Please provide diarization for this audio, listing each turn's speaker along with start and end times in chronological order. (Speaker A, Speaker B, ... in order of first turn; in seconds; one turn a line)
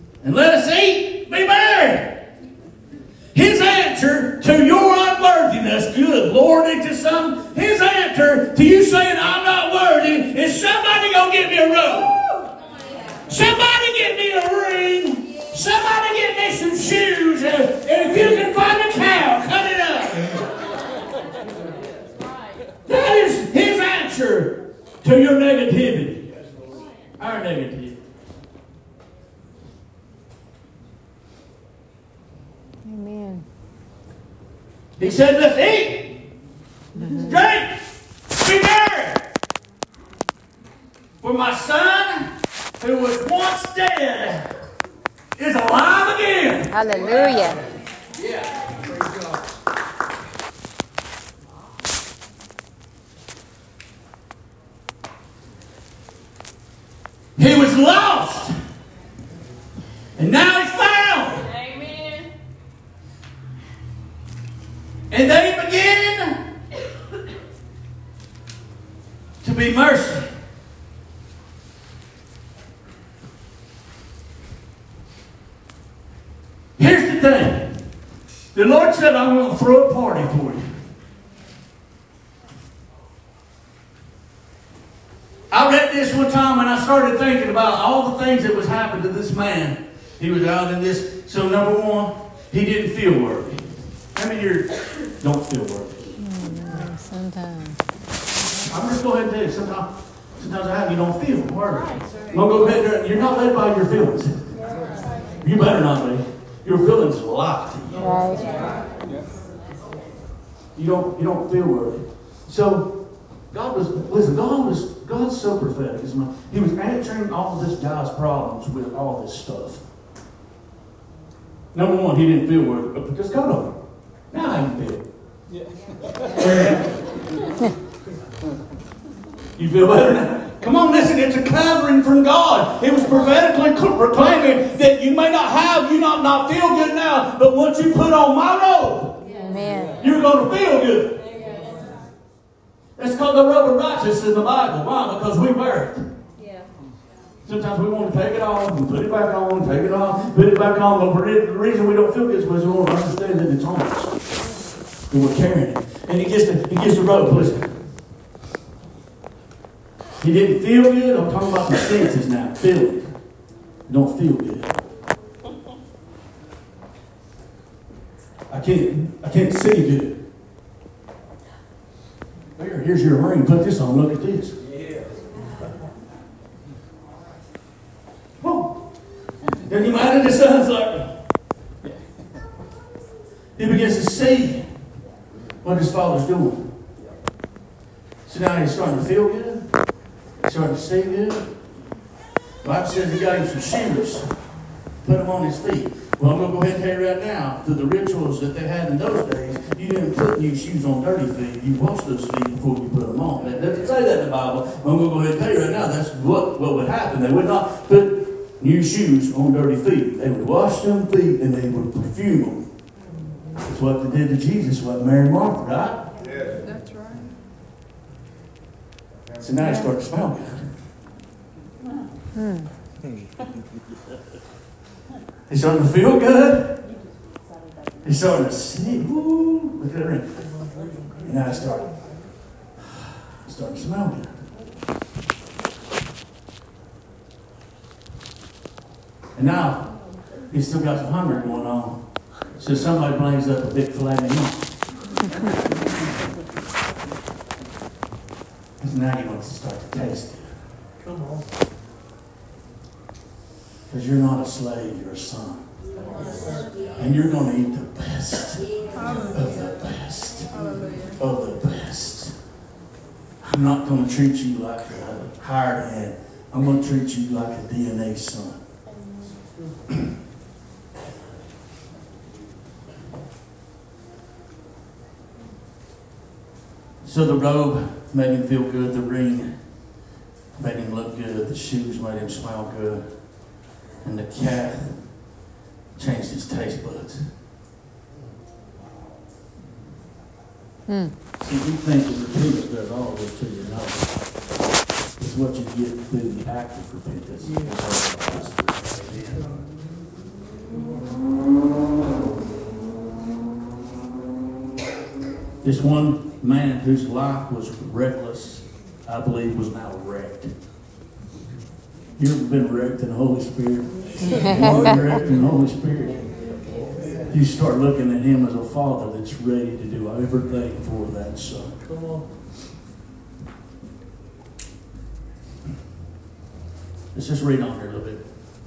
Speaker A: 0.2-2.2
Speaker A: 3.3-12.4
Speaker A: 13.3-20.3
Speaker B: 22.2-22.6
Speaker A: 22.9-26.2
Speaker A: 27.2-28.0
Speaker C: 32.8-33.4
Speaker A: 35.0-36.2
Speaker C: 36.9-37.4
Speaker A: 37.2-37.8
Speaker A: 38.4-39.2
Speaker A: 41.2-44.5
Speaker A: 45.4-46.7
Speaker C: 46.7-47.6
Speaker A: 57.4-58.5
Speaker A: 60.2-61.4
Speaker B: 61.4-62.3
Speaker A: 65.1-66.4
Speaker A: 69.4-70.2
Speaker A: 76.8-77.8
Speaker A: 78.5-80.6
Speaker A: 85.5-96.1
Speaker C: 96.2-97.8
Speaker A: 98.7-104.4
Speaker A: 105.4-108.0
Speaker C: 108.0-108.5
Speaker A: 110.8-112.9
Speaker A: 113.5-119.8
Speaker A: 121.7-123.8
Speaker A: 124.3-125.0
Speaker A: 126.4-126.8
Speaker A: 129.6-139.2
Speaker B: 139.3-139.5
Speaker C: 139.3-140.0
Speaker A: 140.0-141.2
Speaker B: 141.3-141.9
Speaker A: 143.0-146.0
Speaker B: 146.4-146.6
Speaker A: 147.4-154.1
Speaker A: 155.1-157.8
Speaker A: 160.2-163.1
Speaker A: 163.9-164.8
Speaker A: 168.5-170.2
Speaker A: 172.6-174.5
Speaker A: 178.4-178.7
Speaker A: 179.7-181.1
Speaker A: 183.6-184.6
Speaker A: 185.6-186.7
Speaker A: 188.2-189.7
Speaker A: 190.4-191.5
Speaker A: 192.6-194.2
Speaker A: 195.0-212.7
Speaker A: 213.6-216.0
Speaker A: 219.4-220.7
Speaker C: 219.6-219.9
Speaker C: 222.3-222.7
Speaker A: 225.5-226.8
Speaker A: 228.0-230.5
Speaker A: 231.2-231.9
Speaker A: 232.9-234.3
Speaker A: 239.3-239.9
Speaker A: 240.5-242.0
Speaker A: 242.6-244.7
Speaker A: 248.8-250.5
Speaker A: 253.9-255.6
Speaker A: 257.0-260.5
Speaker A: 261.1-262.3
Speaker A: 263.4-268.6
Speaker A: 277.0-279.5
Speaker A: 280.6-283.0
Speaker A: 284.0-285.0
Speaker A: 285.9-287.3
Speaker C: 290.9-291.1
Speaker A: 291.4-294.1
Speaker A: 295.2-299.4
Speaker A: 305.6-310.5
Speaker A: 312.2-316.2
Speaker C: 314.2-315.0
Speaker A: 317.3-321.7
Speaker A: 327.1-328.2